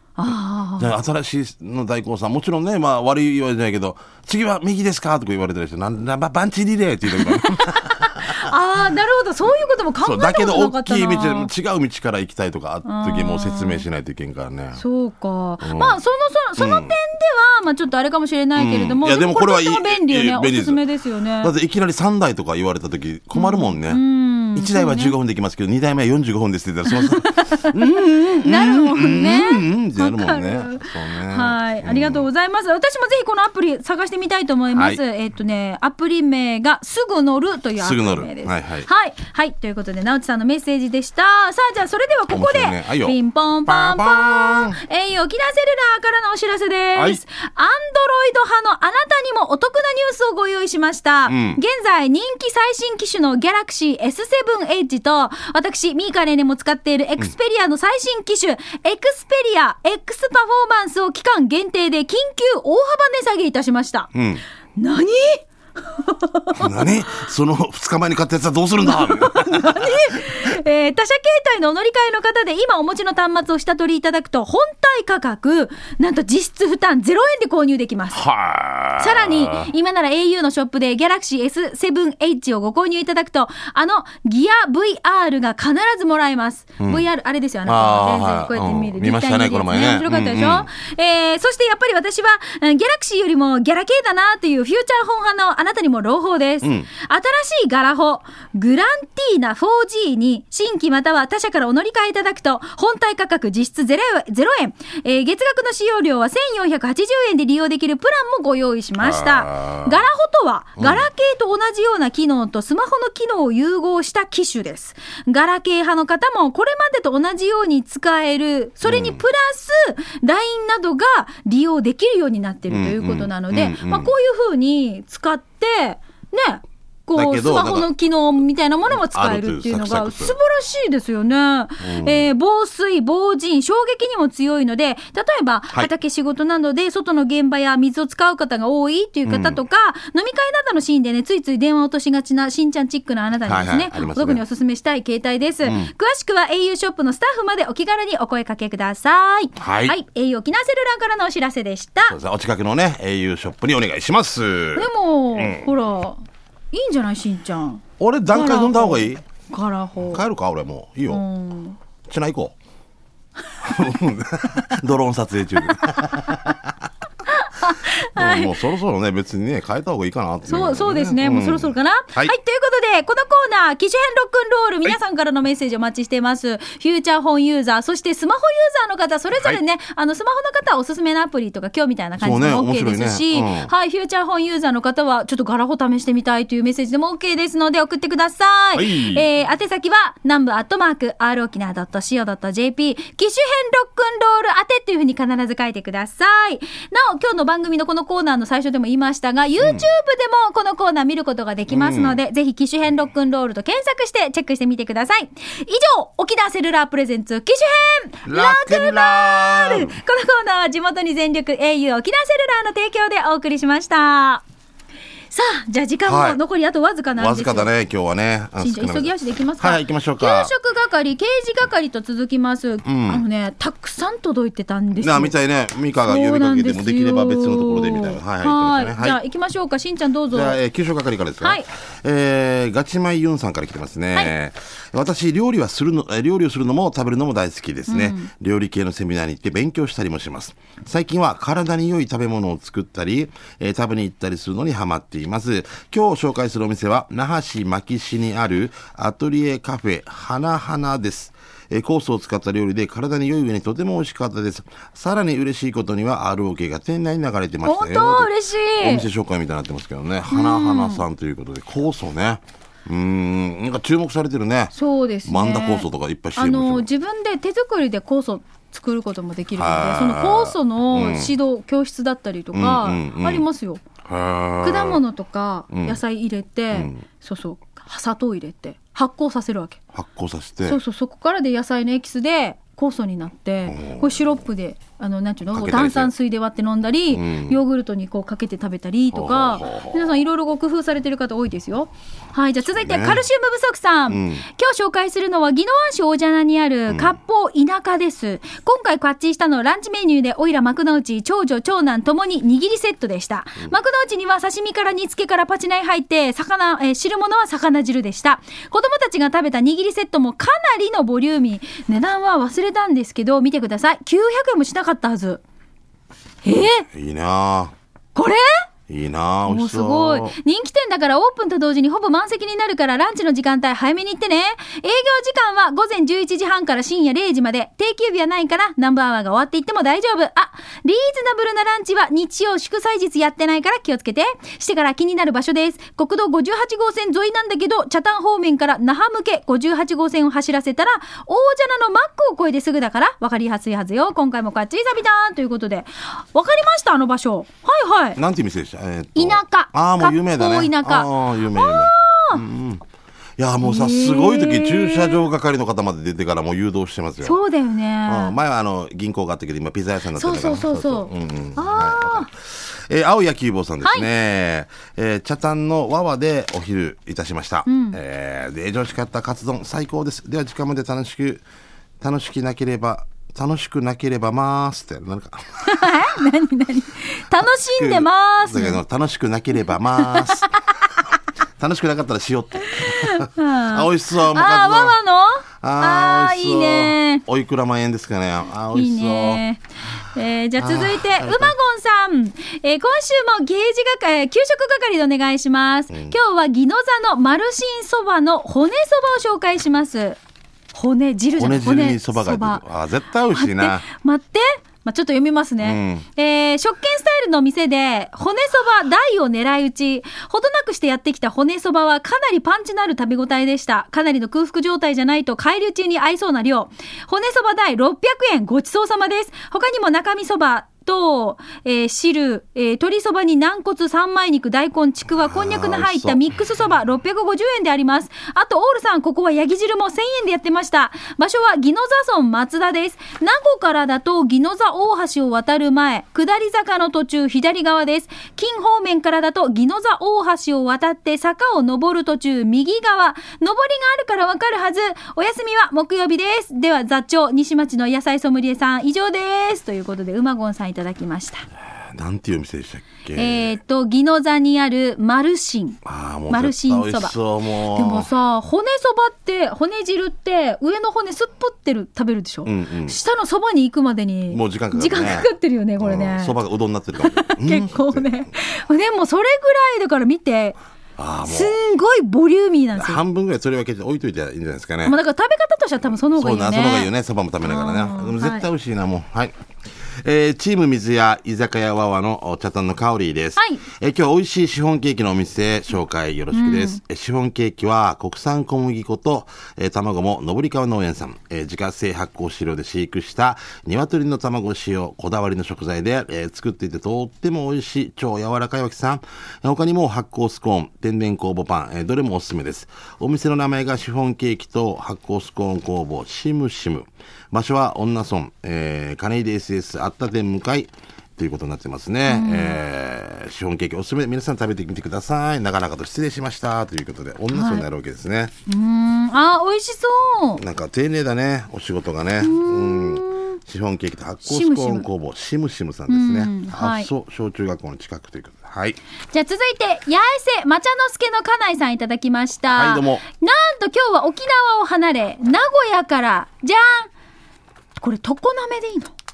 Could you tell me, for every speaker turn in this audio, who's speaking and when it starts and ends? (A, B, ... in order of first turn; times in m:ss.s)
0:00.2-0:00.9 A
0:00.8-0:08.5 B
0:07.2-0:11.5 A
0:10.0-0:14.8 B
0:12.8-0:13.8 A
0:14.8-0:21.5 A
0:15.6-0:16.0 B
0:16.6-0:17.0 B
0:18.6-0:20.8 B
0:21.4-0:24.0 B
0:23.3-0:25.2 A
0:24.5-0:32.3 B
0:26.9-1:04.1 A
0:34.8-0:35.0 B
0:37.8-0:38.9 B
0:42.3-0:44.8 B
0:47.0-0:47.2 B
0:51.3-0:51.6 B
1:04.1-1:04.4 B
1:04.8-1:06.9 A
1:06.6-1:10.5 B
1:08.9-1:18.2 A
1:18.1-1:19.7 B
1:19.0-2:32.2 A
1:26.8-1:27.1 B
1:27.7-1:30.7 B
1:36.6-1:36.9 B
1:49.0-1:50.0 B
1:50.8-1:51.1 B
1:58.8-1:59.2 B
2:02.7-2:04.1 B
2:07.1-2:07.9 B
2:08.9-2:10.4 B
2:11.8-2:12.3 B
2:19.2-2:19.6 B
2:23.5-2:24.4 B
2:25.6-2:25.9 B
2:29.6-2:30.0 B
2:32.1-2:35.7 B
2:34.8-2:40.2 A
2:38.0-2:39.2 B
2:40.0-2:41.2 B
2:41.1-2:41.8 A
2:42.1-2:42.6 B
2:43.6-2:46.7 B
2:47.3-2:48.6 A
2:48.2-2:52.4 B
2:50.5-3:34.4 A
3:02.2-3:03.7 B
3:08.7-3:09.3 B
3:19.6-3:19.9 B
3:21.7-3:22.2 B
3:28.3-3:29.9 B
3:35.3-3:37.7 A
3:36.1-3:36.4 B
3:37.2-3:40.5 B
3:38.6-3:45.4 A
3:42.8-3:43.2 B
3:45.0-3:49.2 B
3:46.1-3:50.6 A
3:50.3-4:24.7 B
3:51.4-3:51.7 A
3:57.9-3:58.3 A
4:17.6-4:19.1 A
4:20.3-4:21.0 A
4:24.7-4:33.8 A
4:25.2-4:26.9 B
4:29.6-4:31.3 B
4:32.5-4:33.5 B
4:34.0-4:35.0 B
4:34.6-4:39.8 A
4:35.7-4:36.0 B
4:36.7-4:37.0 B
4:39.9-4:40.8 B
4:40.6-5:15.4 A
4:43.7-4:44.4 B
4:45.5-4:46.1 B
4:47.1-4:47.6 B
4:49.1-4:50.1 B
4:52.6-4:53.2 B
4:54.1-4:54.5 B
4:56.9-4:57.2 B
5:16.4-5:16.9 A
5:16.9-5:17.7 B
5:18.2-5:18.4 A
5:18.9-5:20.4 B
5:19.5-5:48.2 A
5:48.2-5:52.8 B
5:49.2-5:52.4 A
5:53.4-5:57.4 B
5:53.6-5:55.2 A
5:57.2-5:58.4 A
5:58.1-6:11.4 B
6:00.2-6:02.3 A
6:07.7-6:08.0 A
6:12.0-6:15.9 B
6:15.6-6:18.8 A
6:17.4-6:20.6 B
6:20.0-6:20.8 A
6:21.6-6:25.0 B
6:22.7-6:27.2 A
6:25.6-6:29.4 B
6:28.7-6:40.2 A
6:30.6-6:31.6 B
6:35.9-6:36.2 B
6:40.7-6:42.6 A
6:41.4-6:43.8 B
6:43.3-7:31.5 A
6:45.6-6:46.1 B
7:05.2-7:06.2 B
7:31.8-7:33.5 B
7:33.2-7:37.2 A
7:35.8-7:38.1 B
7:37.7-7:46.4 A
7:42.5-7:43.0 B
7:44.3-7:48.3 B
7:47.0-7:50.6 A
7:51.0-7:51.6 B
7:51.2-7:53.0 A
7:52.8-7:55.0 B
7:54.8-7:56.9 A
7:56.2-7:59.3 B
7:57.4-7:58.5 A
8:00.0-8:38.3 B
8:03.4-8:03.6 A
8:06.3-8:06.8 A
8:32.1-8:32.6 A
8:37.3-8:37.6 A
8:38.5-8:40.4 A
8:40.4-8:48.8 B
8:42.2-8:43.4 A
8:44.2-8:44.9 A
8:45.9-8:46.9 A
8:49.1-8:56.9 A
8:52.5-8:53.0 B
8:57.8-8:58.9 A